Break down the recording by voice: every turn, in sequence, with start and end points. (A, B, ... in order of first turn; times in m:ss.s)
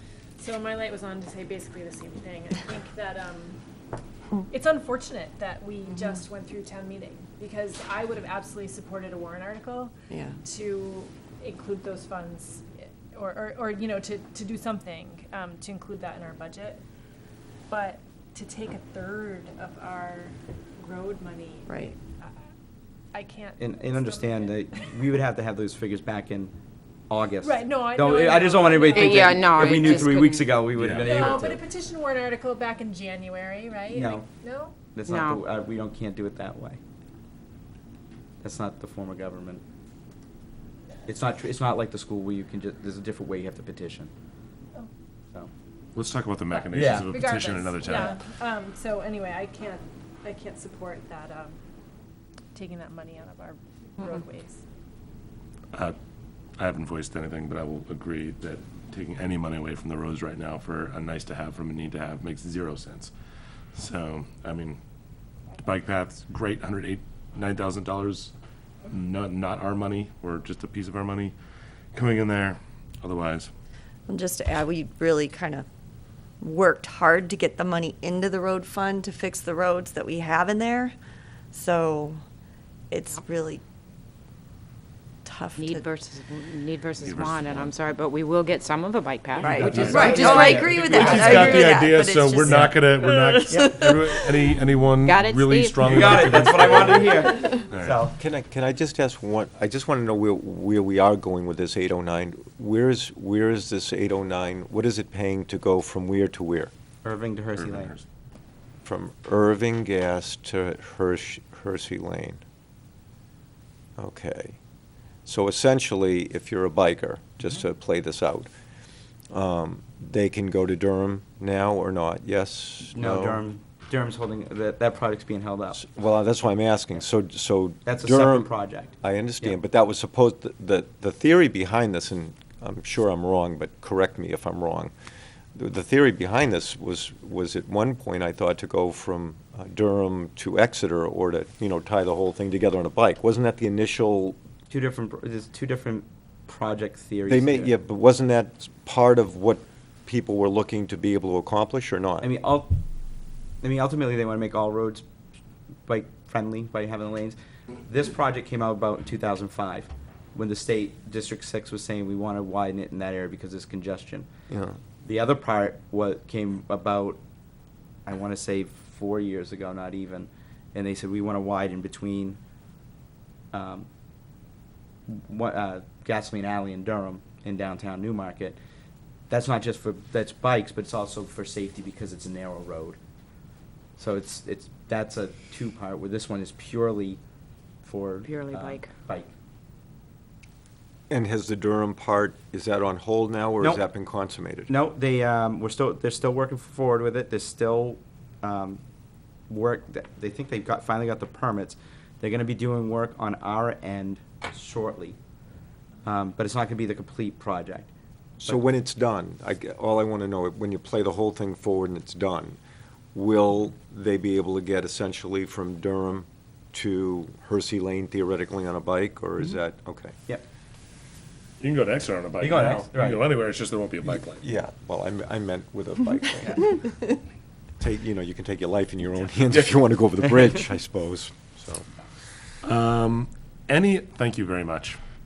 0:00.4-0:03.6 A
0:04.5-0:09.9 A
0:10.1-0:10.4 B
0:10.4-0:16.8 A
0:17.7-0:21.9 A
0:21.7-0:21.9 B
0:23.1-0:24.8 A
0:23.6-0:26.5 C
0:27.1-0:31.6 C
0:27.4-0:29.2 A
0:29.0-0:30.5 D
0:30.8-0:31.4 E
0:31.0-0:34.8 A
0:33.9-0:34.3 C
0:34.9-0:36.8 C
0:35.1-0:35.4 D
0:38.4-0:39.6 C
0:41.1-0:44.1 C
0:46.0-0:48.2 E
0:46.5-0:51.6 A
0:46.7-0:47.2 C
0:52.5-0:54.6 A
0:56.6-1:03.1 E
1:03.7-1:04.8 E
1:05.6-1:08.3 E
1:08.9-1:11.3 E
1:11.9-1:13.5 E
1:14.1-1:15.7 B
1:16.4-1:21.0 B
1:21.5-1:22.2 B
1:22.9-1:23.6 B
1:25.2-1:25.9 B
1:25.6-1:30.4 D
1:27.0-1:27.7 E
1:29.4-1:31.6 C
1:29.4-1:33.6 B
1:29.6-1:37.0 E
1:32.4-1:32.8 C
1:33.5-1:33.8 C
1:35.0-1:36.7 D
1:35.9-1:38.2 C
1:37.7-1:38.0 E
1:38.2-1:46.7 F
1:47.0-1:47.9 C
1:47.6-1:48.0 E
1:48.8-1:52.4 F
1:54.0-1:54.6 F
1:55.3-1:58.5 F
1:59.3-2:03.4 F
2:02.9-2:05.8 C
2:05.8-2:14.9 F
2:07.8-2:09.6 C
2:15.6-2:24.4 F
2:24.7-2:27.7 C
2:27.3-2:32.3 F
2:32.2-2:32.8 C
2:33.6-2:35.0 C
2:35.9-2:44.3 C
2:44.5-2:44.8 F
2:45.0-2:47.2 C
2:48.1-2:52.4 C
2:53.5-2:53.9 C
2:55.1-2:58.6 C
2:59.3-3:03.0 C
3:04.0-3:07.2 C
3:07.8-3:09.3 C
3:08.2-3:08.9 D
3:11.1-3:14.7 F
3:13.6-3:13.9 C
3:14.7-3:18.8 C
3:19.5-3:25.2 C
3:26.0-3:27.9 C
3:28.4-3:32.6 F
3:33.1-3:40.2 F
3:41.6-3:44.4 E
3:42.4-3:43.3 C
3:44.3-3:47.0 F
3:47.8-3:51.9 F
3:52.6-3:55.0 E